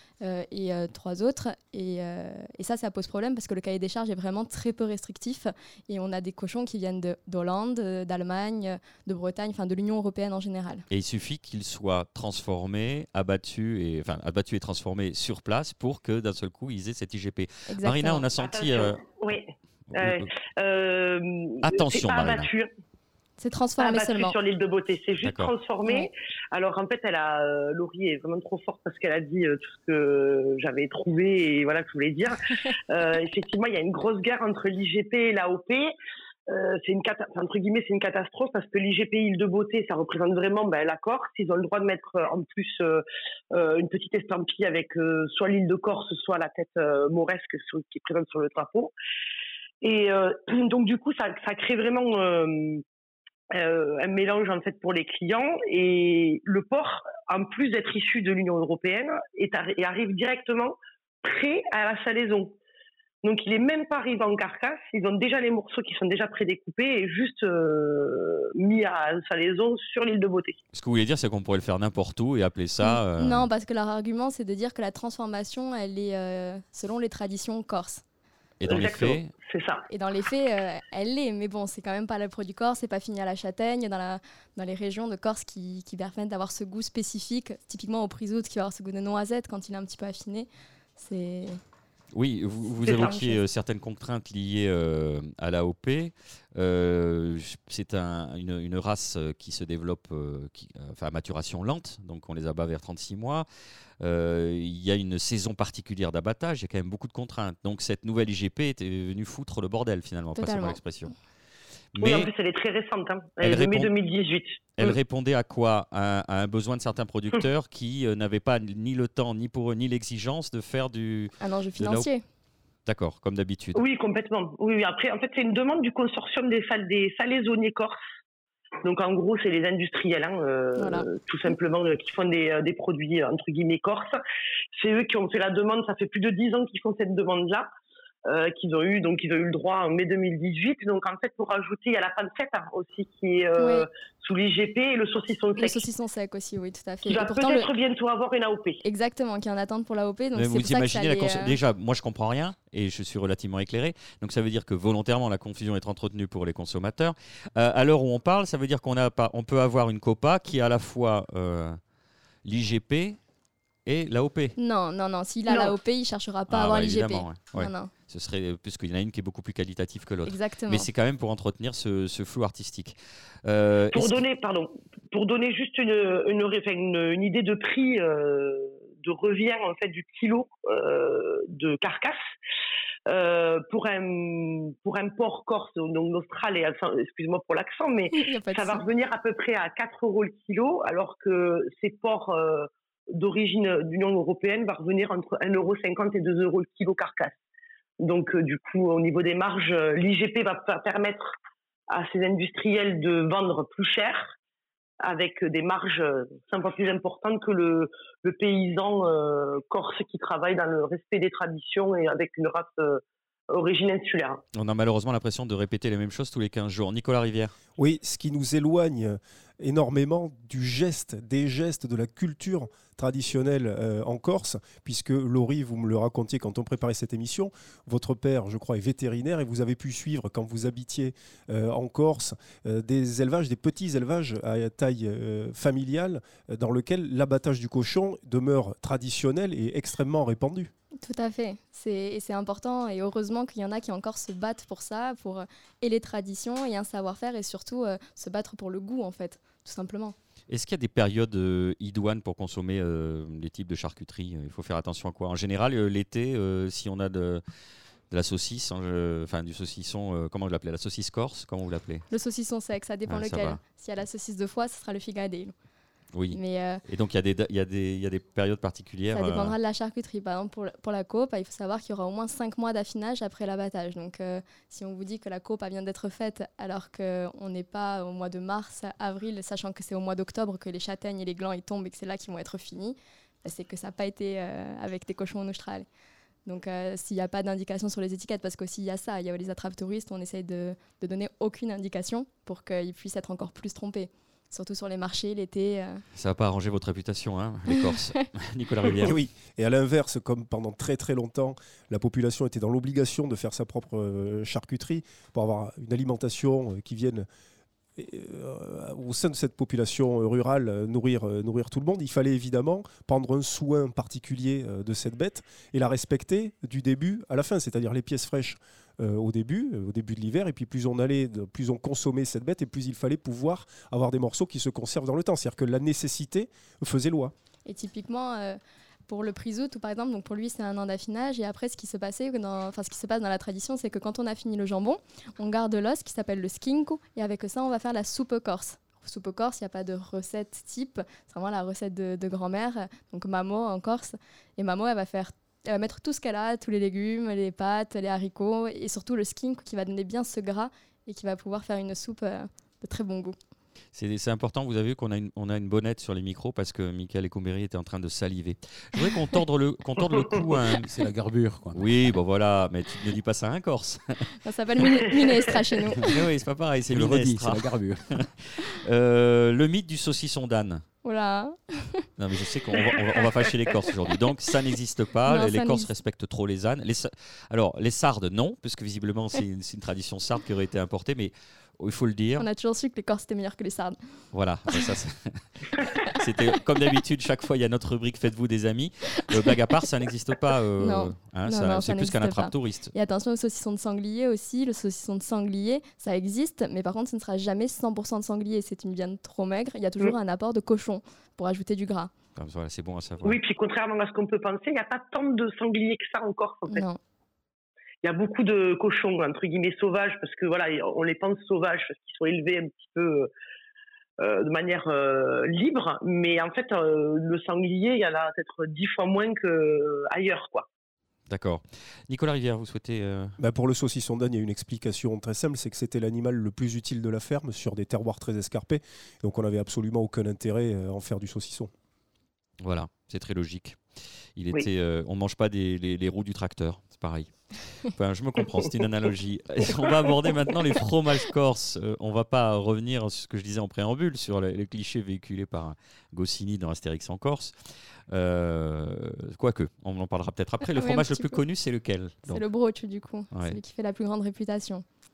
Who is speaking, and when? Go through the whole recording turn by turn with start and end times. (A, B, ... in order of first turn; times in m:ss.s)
0:00.2-0:10.8 A
0:10.9-0:19.0 B
0:17.7-0:18.2 A
0:18.4-0:22.7 C
0:20.0-0:20.3 B
0:21.6-0:22.5 B
0:23.4-0:24.4 A
0:23.8-0:35.9 C
0:25.2-0:25.5 B
0:36.5-0:48.9 C
0:49.8-0:52.8 C
0:53.5-1:02.5 C
1:03.2-1:10.6 C
1:10.7-1:13.5 B
1:12.8-1:18.0 A
1:18.6-1:19.3 B
1:18.6-1:19.8 C
1:19.9-1:31.6 A
1:32.1-1:43.4 B
1:32.8-1:33.2 C
1:44.0-1:51.1 B
1:50.4-1:50.8 A
1:51.9-1:52.3 B
1:52.0-1:55.0 C
1:53.4-1:53.9 B
1:54.8-2:02.0 B
2:01.4-2:02.2 A
2:02.8-2:03.8 B
2:03.7-2:08.0 C
2:08.8-2:14.2 C
2:10.8-2:11.1 A
2:14.7-2:17.7 C
2:18.2-2:25.8 C
2:23.6-2:23.8 A
2:25.6-2:27.7 A
2:27.1-2:28.8 C
2:28.8-2:31.6 A
2:30.3-2:41.8 B
2:42.4-2:43.2 B
2:43.8-2:44.5 B
2:44.6-2:47.9 A
2:45.5-2:45.7 C
2:46.5-2:54.2 B
2:50.2-2:50.9 A
2:53.9-3:02.3 C
3:03.1-3:17.4 C
3:08.1-3:08.8 A
3:18.0-3:21.3 C
3:21.9-3:24.3 C
3:25.0-3:34.4 C
3:34.5-3:37.5 B
3:37.8-4:00.7 D
4:01.0-4:10.1 A
4:10.5-4:17.4 B
4:18.1-4:22.1 B
4:22.1-4:25.5 A
4:23.1-4:23.6 B
4:26.1-4:29.5 B
4:26.3-4:26.8 A
4:29.1-4:45.8 A
4:46.4-4:56.0 A
4:56.1-4:59.2 B
4:59.0-5:07.3 D
5:08.0-5:27.3 D
5:27.6-5:53.4 A
5:53.9-6:00.8 B
6:00.8-6:01.9 E
6:01.7-6:04.3 B
6:04.4-6:06.1 A
6:06.1-6:10.8 B
6:06.9-6:08.3 E
6:11.0-6:12.1 A
6:12.2-6:22.4 B
6:15.3-6:15.9 A
6:22.4-6:24.0 A
6:24.3-6:32.9 B
6:30.8-6:42.1 A
6:42.4-6:43.4 B
6:43.2-6:46.8 C
6:46.7-6:47.0 A
6:48.0-6:53.3 C
6:54.2-7:00.7 C
7:01.3-7:03.4 B
7:03.4-7:11.7 D
7:12.6-7:13.8 B
7:14.4-7:27.5 B
7:28.1-7:32.4 B
7:30.7-7:31.4 A
7:32.3-7:34.8 A